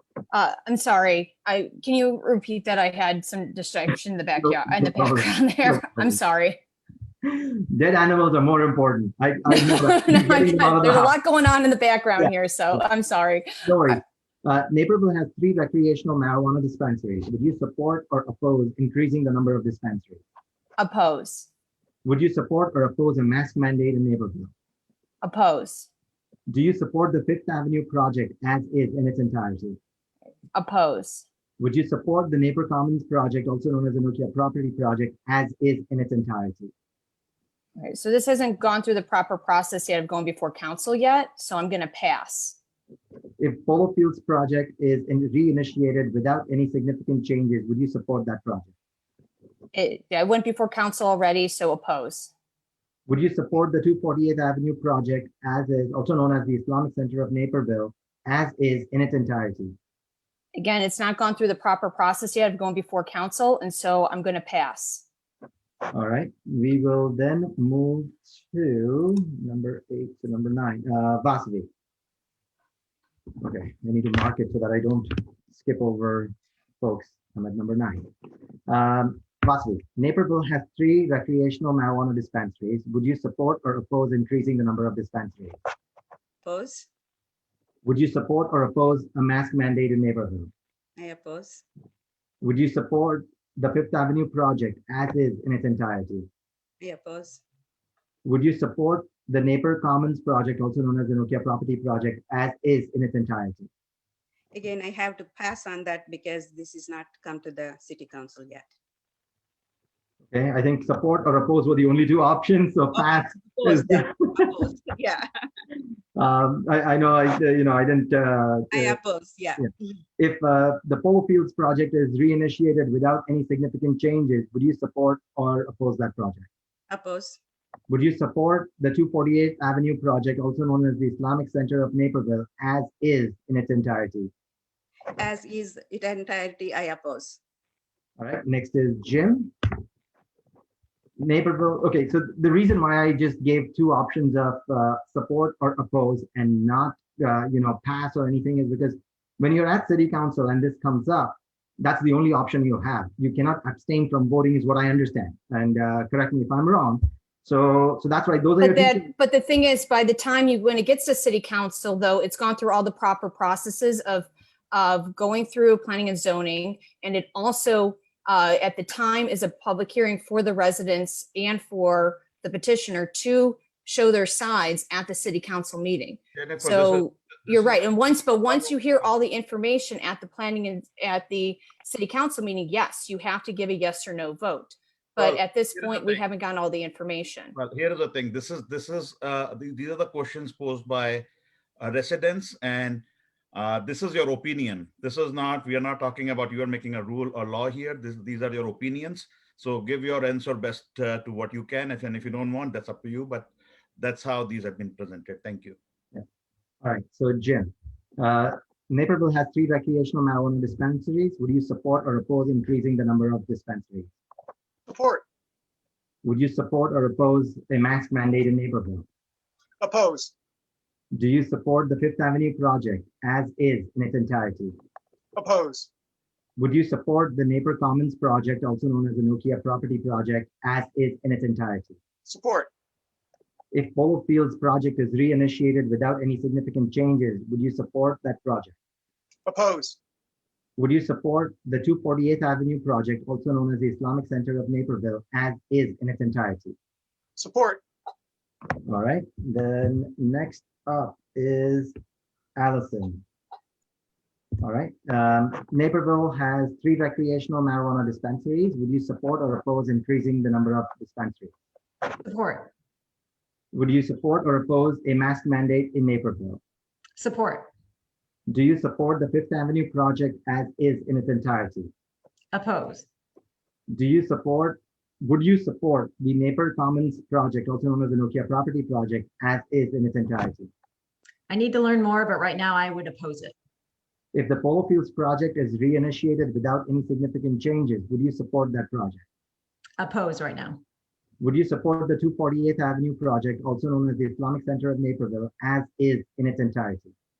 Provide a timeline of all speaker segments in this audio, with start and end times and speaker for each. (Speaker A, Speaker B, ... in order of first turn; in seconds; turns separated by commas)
Speaker A: 0.3-6.6, Speaker B: 4.4-6.1, Speaker B: 7.2-11.1, Speaker A: 9.5-14.0, Speaker B: 12.2-12.8, Speaker B: 13.6-20.2, Speaker A: 20.8-21.5, Speaker B: 22.0-24.5, Speaker A: 25.2-25.9, Speaker B: 26.5-29.8, Speaker A: 30.5-31.2, Speaker B: 31.6-36.7, Speaker A: 37.8-42.5, Speaker B: 43.4-48.7, Speaker A: 49.7-52.3, Speaker B: 53.1-59.8, Speaker A: 60.5-65.0, Speaker B: 65.9-71.7, Speaker B: 73.4-78.1, Speaker B: 78.7-85.5, Speaker C: 86.4-86.9, Speaker B: 87.8-90.5, Speaker C: 91.0-91.6, Speaker B: 92.4-96.3, Speaker C: 96.8-97.4, Speaker B: 98.2-103.7, Speaker C: 104.5-108.7, Speaker B: 110.3-114.1, Speaker C: 113.5-115.3, Speaker B: 116.2-119.0, Speaker C: 118.7-119.7, Speaker B: 119.6-126.5, Speaker C: 126.9-127.4, Speaker B: 127.9-134.3, Speaker C: 135.2-137.4, Speaker B: 138.2-139.5, Speaker B: 141.2-159.1, Speaker A: 158.6-187.5, Speaker D: 176.3-177.8, Speaker D: 185.2-186.2, Speaker D: 187.5-191.2, Speaker D: 191.8-205.8, Speaker B: 206.8-214.1, Speaker E: 214.9-215.2, Speaker B: 216.2-219.1, Speaker E: 219.8-220.3, Speaker B: 221.1-224.8, Speaker E: 225.3-225.9, Speaker B: 226.6-232.0, Speaker E: 232.2-232.7, Speaker B: 233.7-238.7, Speaker E: 239.4-240.0, Speaker B: 240.8-246.8, Speaker E: 247.4-247.8, Speaker B: 248.8-251.9, Speaker B: 252.6-253.2, Speaker B: 254.6-261.5, Speaker F: 262.2-262.7, Speaker B: 263.7-266.6, Speaker F: 267.2-267.7, Speaker B: 268.5-271.9, Speaker F: 272.5-273.1, Speaker B: 273.9-280.7, Speaker F: 281.5-283.5, Speaker B: 284.3-289.2, Speaker F: 290.0-290.8, Speaker B: 291.4-297.1